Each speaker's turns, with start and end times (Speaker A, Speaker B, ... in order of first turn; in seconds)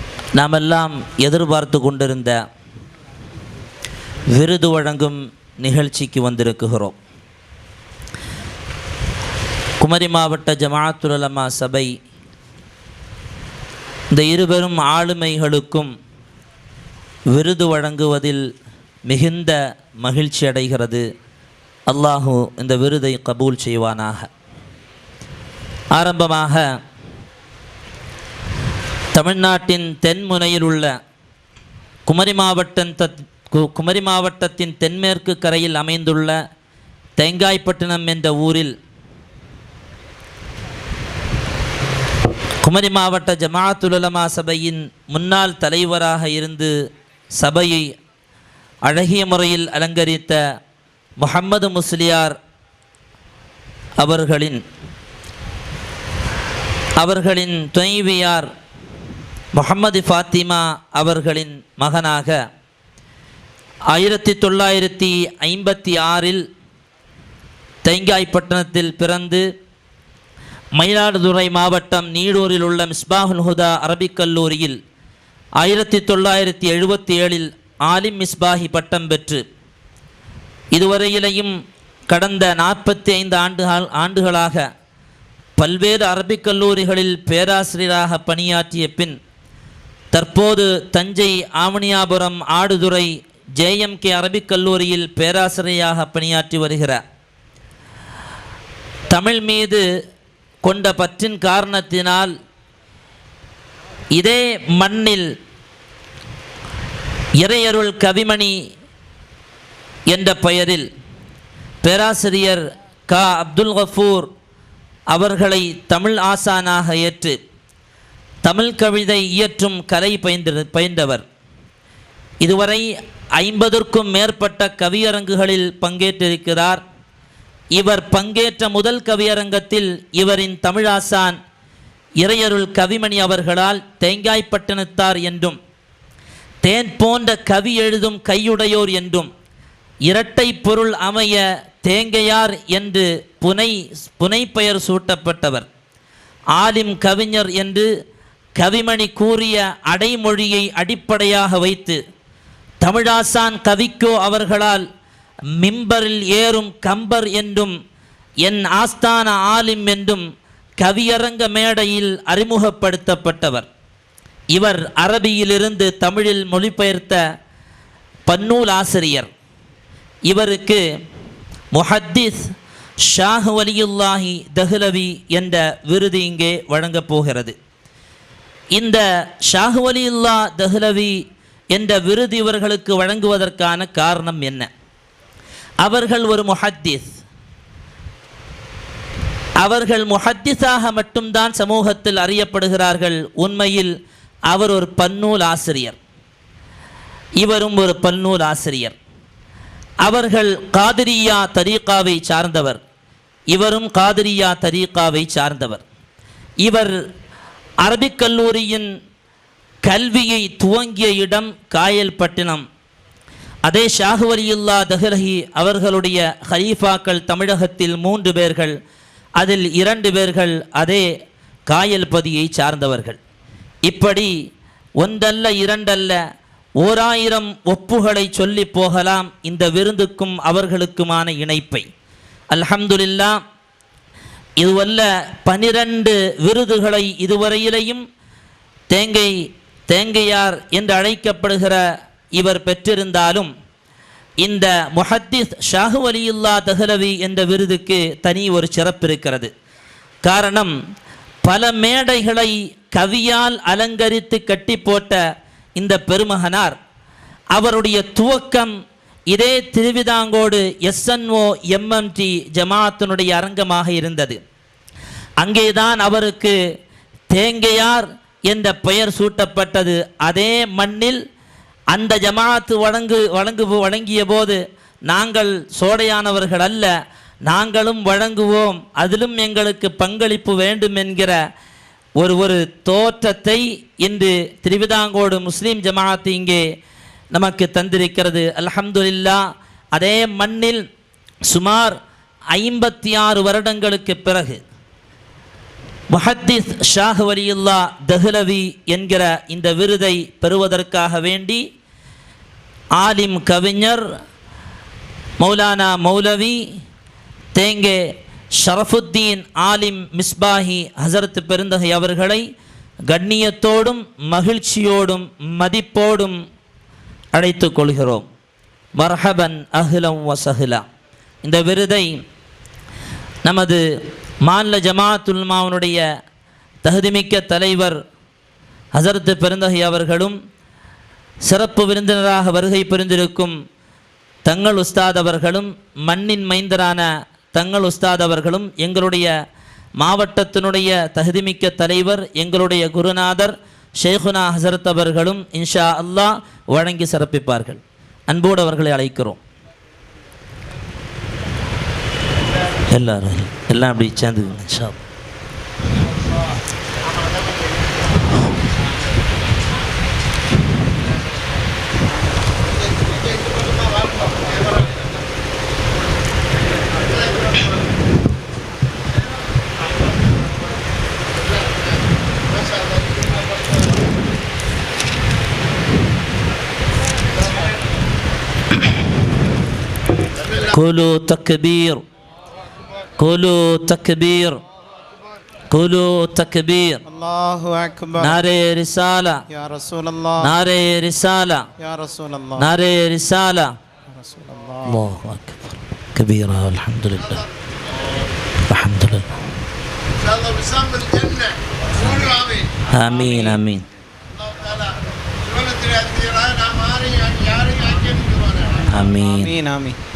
Speaker A: 0.4-2.4, 4.3-7.0, 9.8-11.9, 14.1-15.9, 17.3-18.4, 19.1-21.0, 21.9-24.3, 25.9-26.6, 29.1-30.9, 32.1-36.4, 37.2-38.7, 42.6-46.7, 47.4-47.9, 48.9-50.4, 51.2-52.3, 54.0-54.6, 57.0-58.5, 59.5-62.4, 63.9-66.4, 67.8-69.4, 70.8-74.8, 75.6-79.4, 80.7-81.5, 82.1-84.6, 85.6-89.2, 90.1-97.0, 99.1-99.8, 100.6-102.3, 104.2-105.2, 107.4-108.5, 110.1-110.9, 111.8-114.3, 115.1-117.4, 118.4-121.2, 122.4-122.9, 123.4-126.8, 127.8-131.4, 132.2-135.6, 136.6-139.3, 140.1-145.7, 146.6-147.9, 148.6-152.0, 152.8-154.8, 155.6-157.7, 158.4-160.2, 160.8-163.7, 164.5-167.2, 168.3-169.3, 170.3-170.8, 171.8-172.4, 173.1-177.6, 178.8-181.2, 181.7-184.7, 185.8-187.1, 189.6-193.9, 194.5-196.0, 197.4-198.9, 200.0-202.8, 203.5-205.8, 206.6-206.9, 207.8-208.9, 209.8-212.6, 213.7-218.7, 219.4-221.1, 221.7-223.2, 223.9-224.3, 225.0-226.2, 226.8-231.8, 232.5-233.4, 234.6-238.0, 238.9-239.3, 239.9-241.8, 242.3-243.5, 244.4-249.5, 250.2-250.7, 251.5-255.2, 255.8-256.8, 257.5-258.7, 259.3-264.4, 265.4-266.6, 267.3-271.2, 271.9-276.9, 277.5-281.4, 282.2-286.6, 287.3-289.4, 289.9-290.8, 291.5-292.0, 292.5-294.6, 296.1-301.6, 303.0-304.0, 305.4-306.6, 307.6-308.0, 308.6-312.4, 313.1-316.4, 317.4-318.3, 319.0-320.8, 321.4-322.2, 323.4-323.8, 324.4-326.0, 326.8-328.0, 328.9-330.4, 331.4-333.6, 334.5-339.3, 340.0-349.4, 352.9-355.0, 380.8-382.0, 383.2-384.6, 385.7-387.0, 388.2-389.4, 390.4-391.6, 392.6-393.7, 394.9-397.4, 398.7-399.4, 402.9-403.8, 408.9-409.5
Speaker B: 357.1-357.9, 362.7-365.1, 367.0-367.7, 371.4-374.0, 380.4-380.7, 400.2-402.7, 404.4-408.9
Speaker C: 387.1-388.4, 389.5-390.5, 391.8-392.7, 394.1-395.0, 409.4-410.0